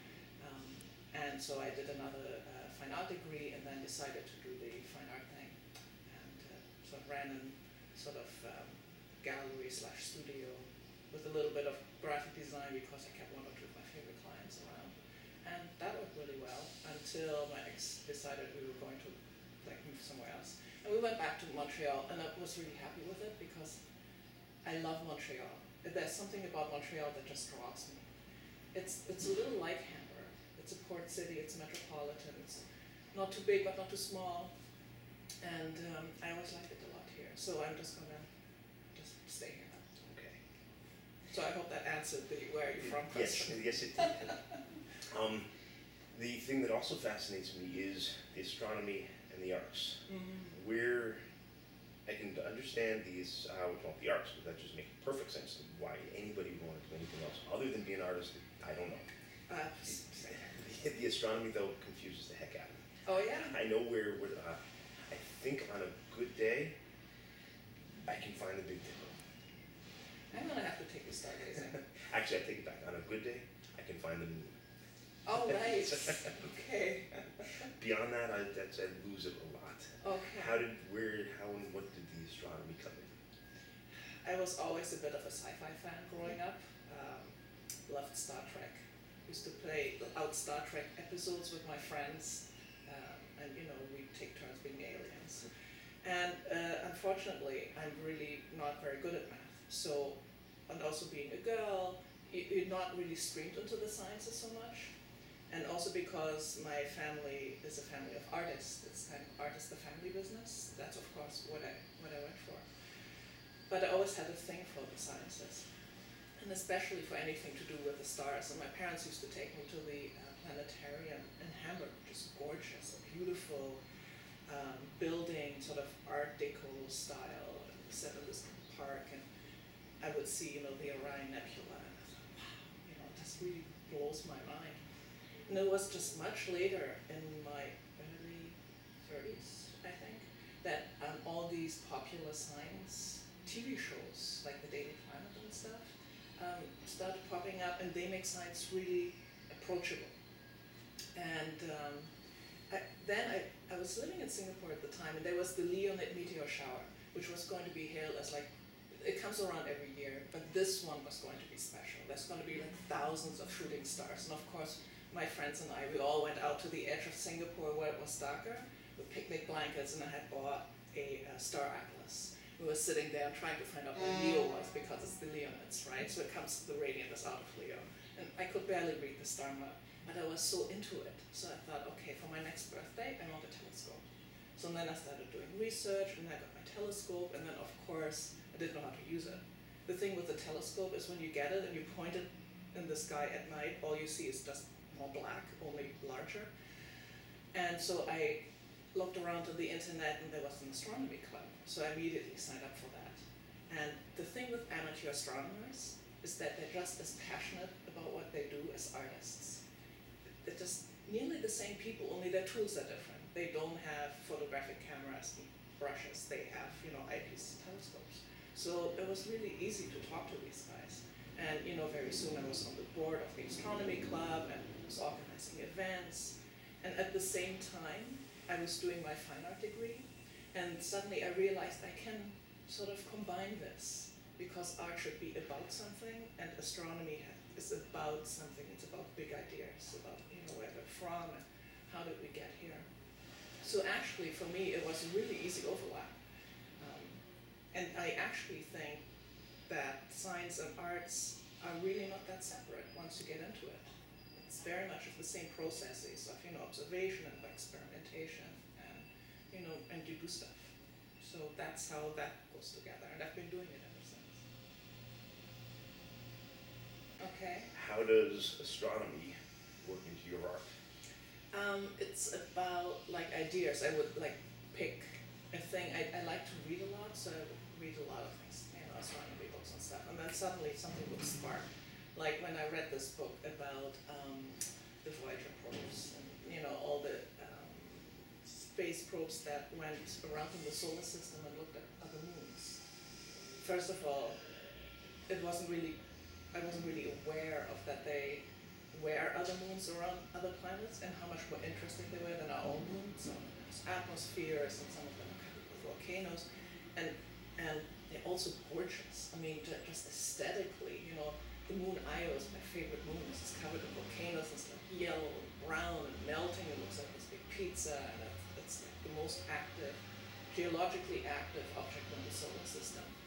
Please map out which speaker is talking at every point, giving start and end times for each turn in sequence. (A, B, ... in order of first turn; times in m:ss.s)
0:00.4-0:14.9 A
0:15.4-0:23.8 A
0:24.6-0:28.1 A
0:28.7-0:32.6 A
0:33.1-0:34.5 A
0:35.4-0:38.3 A
0:38.9-0:40.0 A
0:40.0-0:40.4 B
0:41.3-0:44.3 A
0:42.8-0:44.3 B
0:45.1-0:45.5 B
0:46.1-0:51.2 B
0:50.1-0:50.5 A
0:52.1-0:59.1 B
0:59.5-1:00.5 A
1:00.3-1:02.8 B
1:03.0-1:03.5 A
1:03.4-1:06.7 B
1:08.1-1:09.2 B
1:10.3-1:11.9 A
1:12.0-1:14.5 B
1:15.3-1:17.7 A
1:17.8-1:23.1 B
1:20.0-1:20.6 A
1:24.2-1:27.4 A
1:27.9-1:35.5 A
1:36.0-1:40.2 A
1:40.7-1:44.9 A
1:45.5-1:52.7 A
1:53.7-1:55.7 A
1:56.4-2:03.8 A
2:04.5-2:09.3 A
2:10.0-2:14.8 A
2:15.5-2:30.1 A
2:31.2-2:32.1 A
2:32.7-3:04.0 A
3:04.6-3:16.5 A
3:17.5-3:18.4 A
3:18.9-3:29.6 A
3:30.4-4:02.9 A
4:03.6-4:06.1 A
4:06.8-4:07.2 A
4:07.7-4:09.0 A
4:09.7-4:24.4 A
4:27.2-4:27.7 A
4:27.7-4:30.7 B
4:31.5-4:52.8 A
4:53.6-4:54.4 A
4:55.3-4:56.0 A
4:56.5-5:06.4 A
5:07.0-5:23.1 A